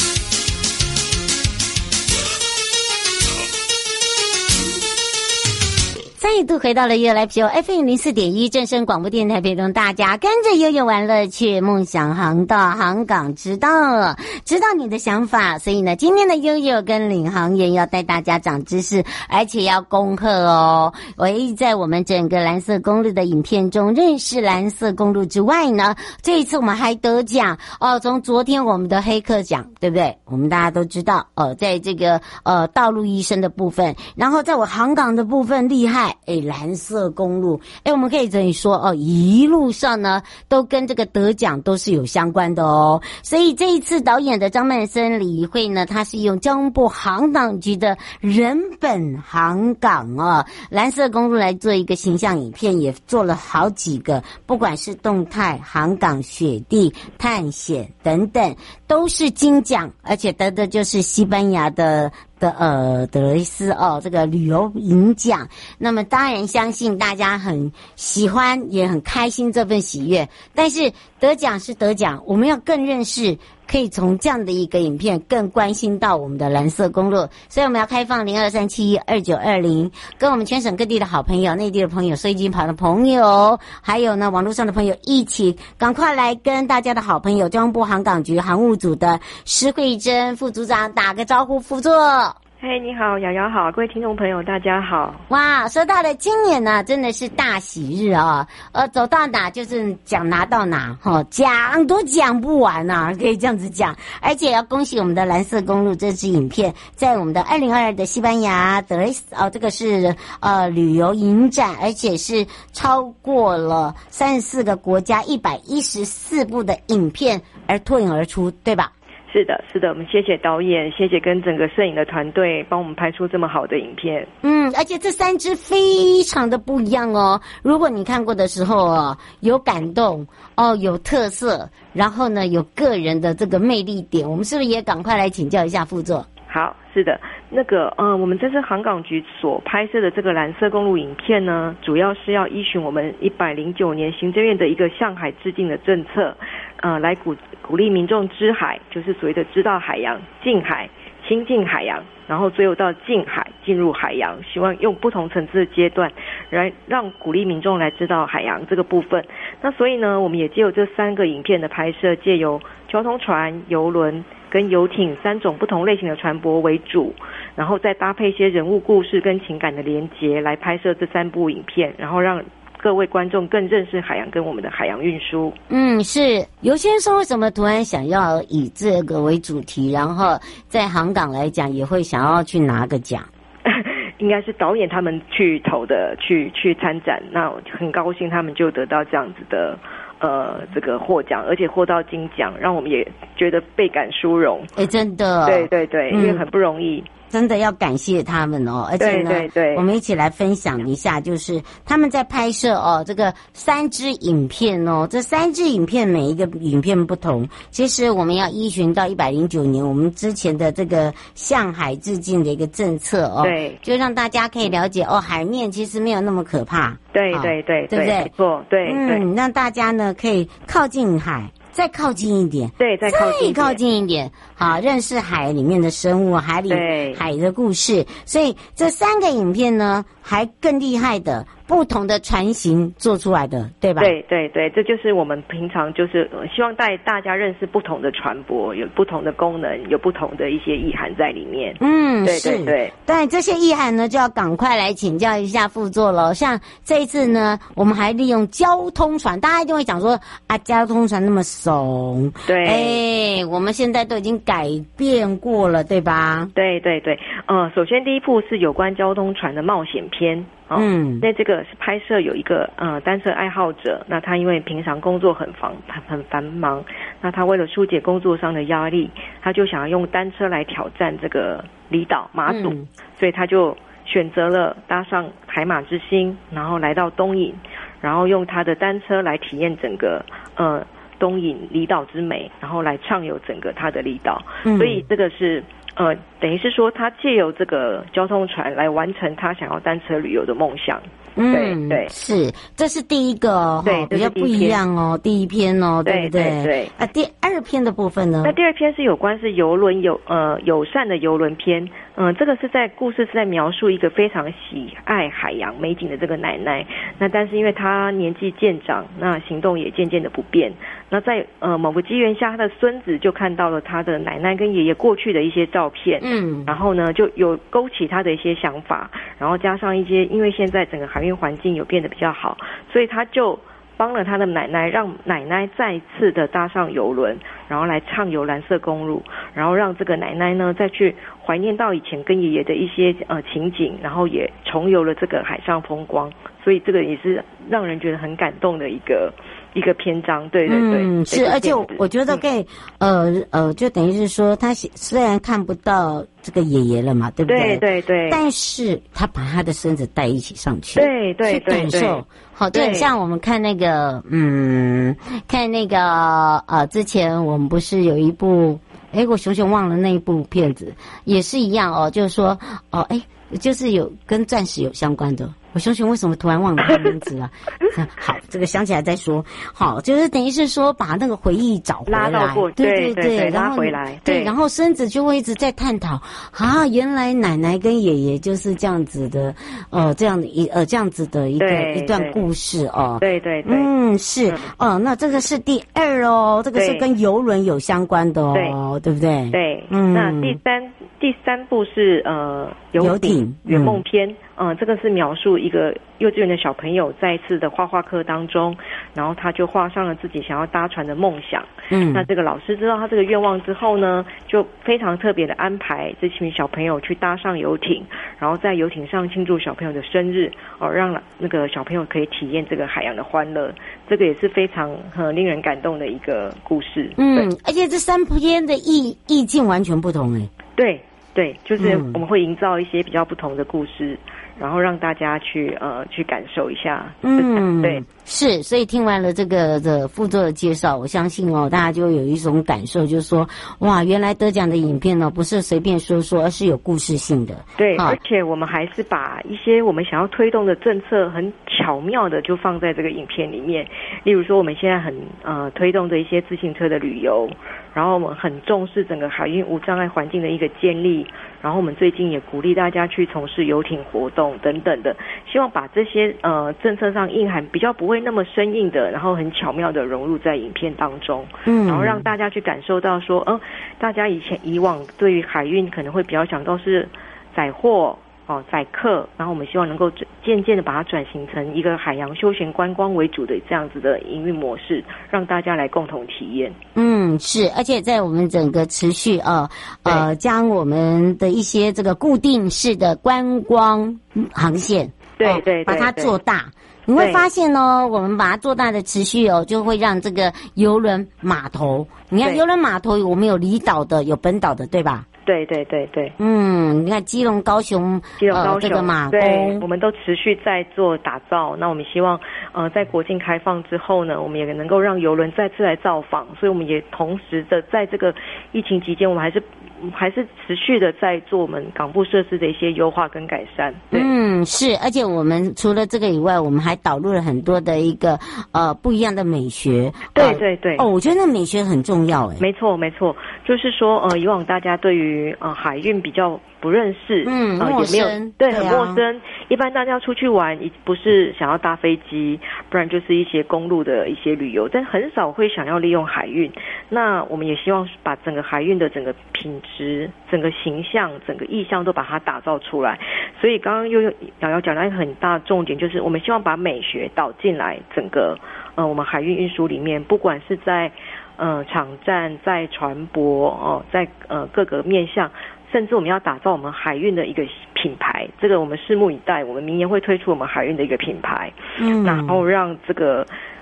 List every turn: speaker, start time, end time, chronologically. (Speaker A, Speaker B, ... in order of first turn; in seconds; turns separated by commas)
Speaker A: 6.2-92.4, Speaker B: 92.6-95.2, Speaker A: 95.3-118.9, Speaker B: 119.3-124.3, Speaker A: 124.4-136.3, Speaker B: 136.5-175.6, Speaker A: 175.7-183.3, Speaker B: 183.7-194.7, Speaker A: 194.8-196.4, Speaker B: 195.4-197.1, Speaker A: 197.3-218.3, Speaker B: 199.0-199.8, Speaker B: 213.4-213.8, Speaker B: 217.1-219.2, Speaker A: 218.8-234.2, Speaker B: 222.8-223.8, Speaker B: 226.7-227.2, Speaker B: 234.0-242.9, Speaker A: 241.8-256.5, Speaker B: 252.5-253.0, Speaker B: 256.6-292.1, Speaker A: 260.8-261.3, Speaker A: 272.5-272.9, Speaker A: 284.6-285.0, Speaker A: 291.4-298.6, Speaker B: 293.8-294.8, Speaker B: 296.1-296.9, Speaker B: 298.4-342.4, Speaker A: 316.2-316.7, Speaker A: 340.7-390.6, Speaker B: 347.5-348.4, Speaker B: 351.0-353.1, Speaker B: 372.1-374.5, Speaker B: 381.6-382.4, Speaker B: 383.2-383.9, Speaker B: 386.8-387.1, Speaker B: 389.5-417.5, Speaker A: 393.0-394.0, Speaker A: 401.9-402.3, Speaker A: 417.2-420.5, Speaker B: 420.8-428.1, Speaker A: 421.8-422.2, Speaker A: 427.2-438.2, Speaker B: 437.8-476.8, Speaker A: 461.7-462.3, Speaker A: 476.9-495.3, Speaker B: 485.4-486.4, Speaker B: 487.2-487.4, Speaker B: 495.5-496.4, Speaker A: 496.4-499.9, Speaker B: 498.4-514.3, Speaker A: 514.1-522.6, Speaker B: 520.4-521.1, Speaker B: 522.6-563.5, Speaker A: 527.4-529.2, Speaker A: 562.0-562.6